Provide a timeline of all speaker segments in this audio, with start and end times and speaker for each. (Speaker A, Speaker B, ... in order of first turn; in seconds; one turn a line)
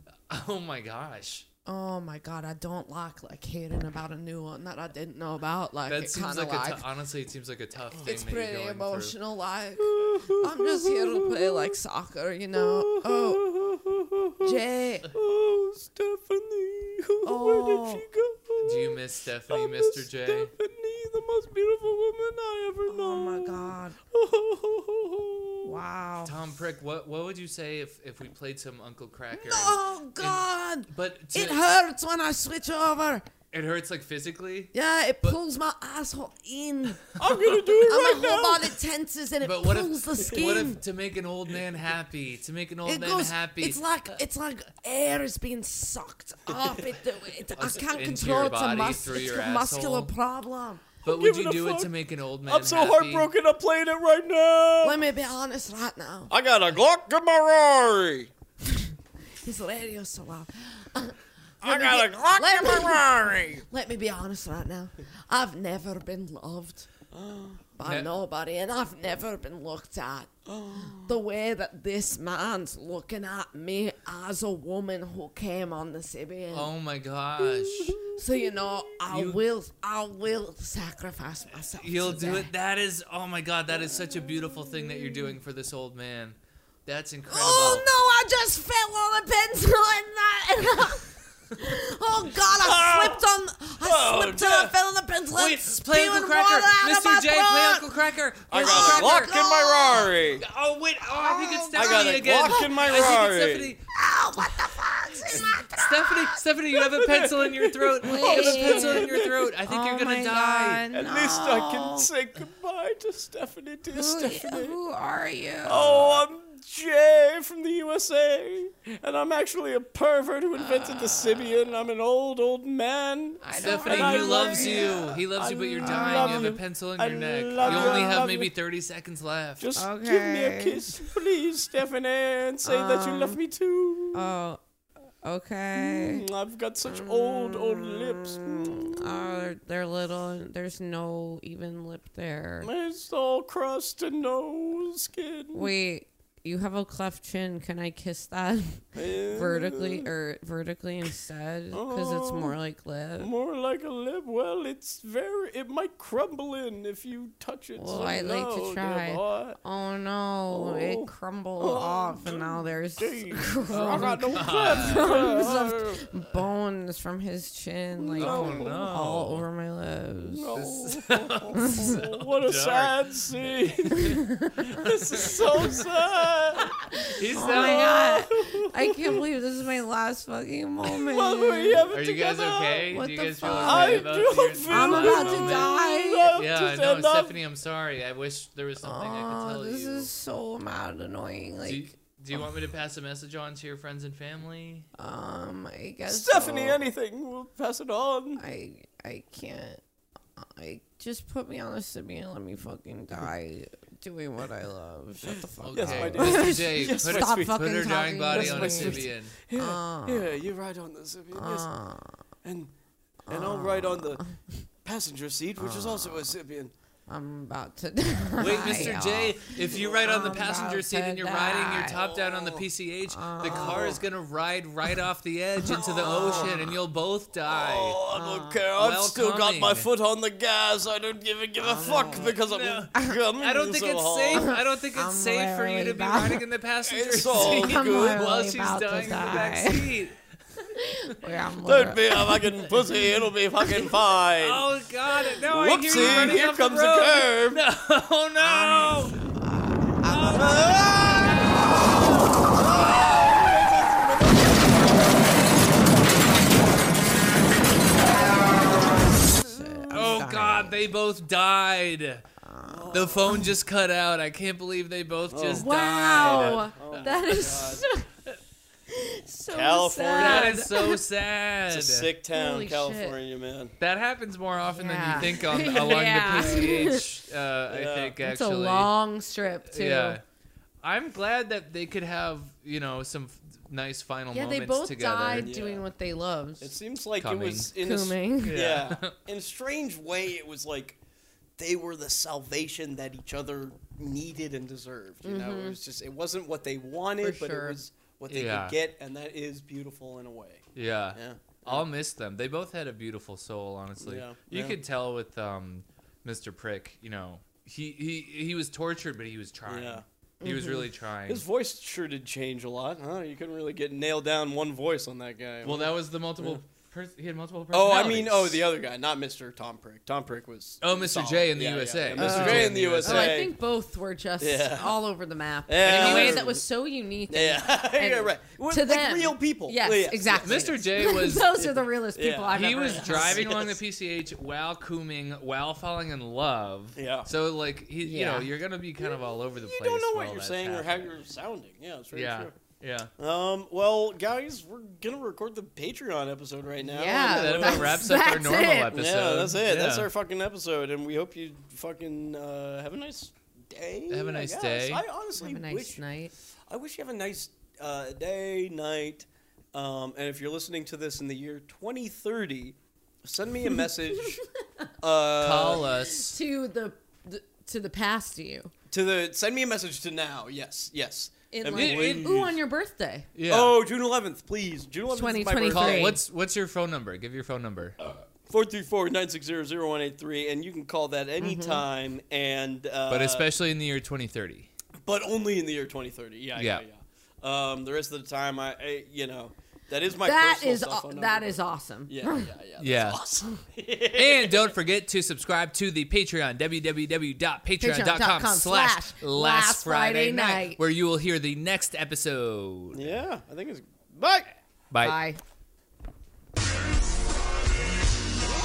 Speaker A: 0.3-1.5
Speaker B: 1.7-6.9
Speaker A: 5.9-9.2
Speaker B: 8.0-13.5
Speaker C: 9.8-11.8
Speaker C: 12.5-25.8
Speaker B: 14.4-15.1
Speaker B: 17.2-18.1
Speaker A: 18.6-20.5
Speaker B: 22.9-24.0
Speaker B: 25.6-26.4
Speaker A: 26.2-31.6
Speaker B: 29.3-33.2
Speaker A: 33.5-34.7
Speaker B: 34.7-37.0
Speaker C: 37.2-38.7
Speaker B: 37.7-40.8
Speaker A: 39.4-43.8
Speaker C: 40.2-40.5
Speaker B: 42.9-50.9
Speaker A: 47.6-50.1
Speaker C: 51.0-51.9
Speaker A: 51.0-53.3
Speaker C: 52.5-55.0
Speaker B: 54.8-56.3
Speaker C: 56.3-58.3
Speaker B: 58.7-63.1
Speaker C: 61.6-63.6
Speaker B: 63.7-66.9
Speaker C: 67.1-67.8
Speaker B: 67.8-70.3
Speaker A: 67.8-68.1
Speaker C: 70.5-71.2
Speaker B: 70.9-76.7
Speaker A: 76.5-78.1
Speaker C: 77.4-78.9
Speaker B: 78.2-82.5
Speaker A: 79.1-79.4
Speaker A: 81.7-87.9
Speaker C: 83.7-84.9
Speaker B: 87.3-97.9
Speaker C: 92.6-93.2
Speaker C: 93.8-94.8
Speaker A: 95.3-99.4
Speaker C: 98.5-100.4
Speaker B: 98.5-100.1
Speaker A: 100.4-103.8
Speaker B: 101.2-103.0
Speaker C: 101.7-103.8
Speaker B: 103.9-106.4
Speaker A: 105.3-110.9
Speaker C: 106.8-109.5
Speaker B: 108.0-112.1
Speaker C: 110.9-114.8
Speaker B: 113.9-116.2
Speaker C: 115.7-128.6
Speaker B: 120.6-121.5
Speaker B: 123.4-125.1
Speaker A: 123.5-129.7
Speaker B: 125.8-126.6
Speaker B: 127.6-128.3
Speaker C: 129.6-134.3
Speaker B: 129.8-131.1
Speaker B: 132.6-133.4
Speaker B: 134.1-134.6
Speaker B: 135.2-136.2
Speaker C: 135.7-139.3
Speaker B: 136.8-142.7
Speaker C: 142.6-145.7
Speaker B: 145.5-153.3
Speaker C: 148.9-150.1
Speaker C: 151.7-152.6
Speaker C: 153.2-159.6
Speaker B: 157.8-170.5
Speaker C: 160.5-166.1
Speaker A: 163.7-165.3
Speaker C: 168.0-168.9
Speaker A: 168.2-169.5
Speaker C: 170.3-174.2
Speaker A: 170.5-175.8
Speaker B: 171.5-172.0
Speaker B: 174.0-174.6
Speaker C: 174.8-176.7
Speaker B: 175.2-175.8
Speaker B: 176.6-182.0
Speaker A: 177.2-178.1
Speaker C: 177.3-179.2
Speaker C: 180.9-187.4
Speaker A: 181.9-185.7
Speaker B: 182.9-186.4
Speaker A: 186.3-190.1
Speaker B: 188.8-191.9
Speaker A: 191.6-194.9
Speaker B: 195.0-196.8
Speaker C: 196.1-198.4
Speaker B: 198.4-199.8
Speaker B: 200.4-210.3
Speaker C: 205.2-211.7
Speaker A: 205.6-209.4
Speaker B: 211.3-212.2
Speaker C: 212.4-212.7
Speaker B: 213.3-214.6
Speaker C: 213.3-214.2
Speaker C: 214.8-216.7
Speaker B: 215.6-216.3
Speaker B: 217.1-222.0
Speaker A: 218.4-228.0
Speaker C: 218.6-219.0
Speaker C: 219.7-220.5
Speaker C: 221.9-222.7
Speaker B: 223.1-224.0
Speaker C: 223.4-224.0
Speaker B: 225.6-226.7
Speaker C: 225.7-226.8
Speaker C: 227.5-234.5
Speaker B: 228.1-228.7
Speaker A: 228.8-229.9
Speaker B: 231.6-232.4
Speaker A: 232.2-240.2
Speaker B: 234.3-236.4
Speaker C: 236.8-238.3
Speaker B: 237.3-240.0
Speaker B: 240.8-243.9
Speaker C: 241.7-244.7
Speaker A: 244.4-249.2
Speaker C: 245.5-247.6
Speaker B: 245.9-246.4
Speaker B: 248.4-251.7
Speaker A: 250.0-252.4
Speaker C: 250.3-251.8
Speaker C: 252.4-256.2
Speaker B: 258.0-260.9
Speaker C: 258.2-260.2
Speaker A: 259.9-262.2
Speaker B: 262.4-263.4
Speaker C: 262.7-263.3
Speaker A: 262.9-266.8
Speaker C: 265.3-267.9
Speaker B: 265.6-268.1
Speaker B: 268.9-271.0
Speaker C: 269.5-270.6
Speaker A: 270.1-272.1
Speaker C: 271.7-273.8
Speaker B: 272.3-273.2
Speaker A: 273.8-278.9
Speaker B: 274.7-277.1
Speaker C: 277.7-278.2
Speaker B: 278.2-280.2
Speaker A: 279.7-280.2
Speaker A: 280.8-285.5
Speaker B: 284.3-286.7
Speaker C: 285.3-285.9
Speaker C: 286.6-291.0
Speaker A: 287.2-287.7
Speaker B: 287.8-288.6
Speaker A: 288.4-289.2
Speaker C: 291.6-301.9
Speaker B: 295.2-295.8
Speaker B: 297.2-297.8
Speaker A: 298.3-298.8
Speaker A: 300.8-311.4
Speaker C: 304.0-304.8
Speaker C: 309.7-310.0
Speaker B: 310.4-310.9
Speaker C: 311.3-316.6
Speaker A: 315.6-318.7
Speaker C: 317.7-323.5
Speaker A: 320.8-323.5
Speaker B: 322.1-333.8
Speaker C: 324.4-325.0
Speaker C: 325.7-326.6
Speaker A: 325.8-326.6
Speaker C: 327.3-330.9
Speaker A: 330.4-331.7
Speaker C: 331.6-333.8
Speaker A: 332.5-341.1
Speaker C: 337.0-337.3
Speaker B: 338.0-338.5
Speaker C: 339.1-342.6
Speaker A: 342.1-343.1
Speaker C: 343.2-348.1
Speaker B: 346.9-349.1
Speaker A: 347.1-350.1
Speaker C: 348.9-356.0
Speaker A: 354.1-355.0
Speaker B: 355.4-356.3
Speaker C: 356.7-364.4
Speaker C: 365.0-365.9
Speaker A: 365.3-366.4
Speaker B: 365.9-368.7
Speaker C: 368.9-372.6
Speaker B: 371.5-373.3
Speaker A: 371.7-372.5
Speaker A: 373.4-373.8
Speaker C: 373.5-376.2
Speaker B: 375.1-376.2
Speaker A: 375.7-378.0
Speaker C: 378.0-383.5
Speaker B: 381.4-381.9
Speaker A: 383.1-384.7
Speaker C: 385.0-394.8
Speaker A: 386.6-386.9
Speaker B: 390.1-392.5
Speaker A: 392.8-393.2
Speaker A: 394.1-403.1
Speaker B: 397.8-400.8
Speaker C: 402.9-404.5
Speaker A: 404.9-405.2
Speaker B: 405.0-405.4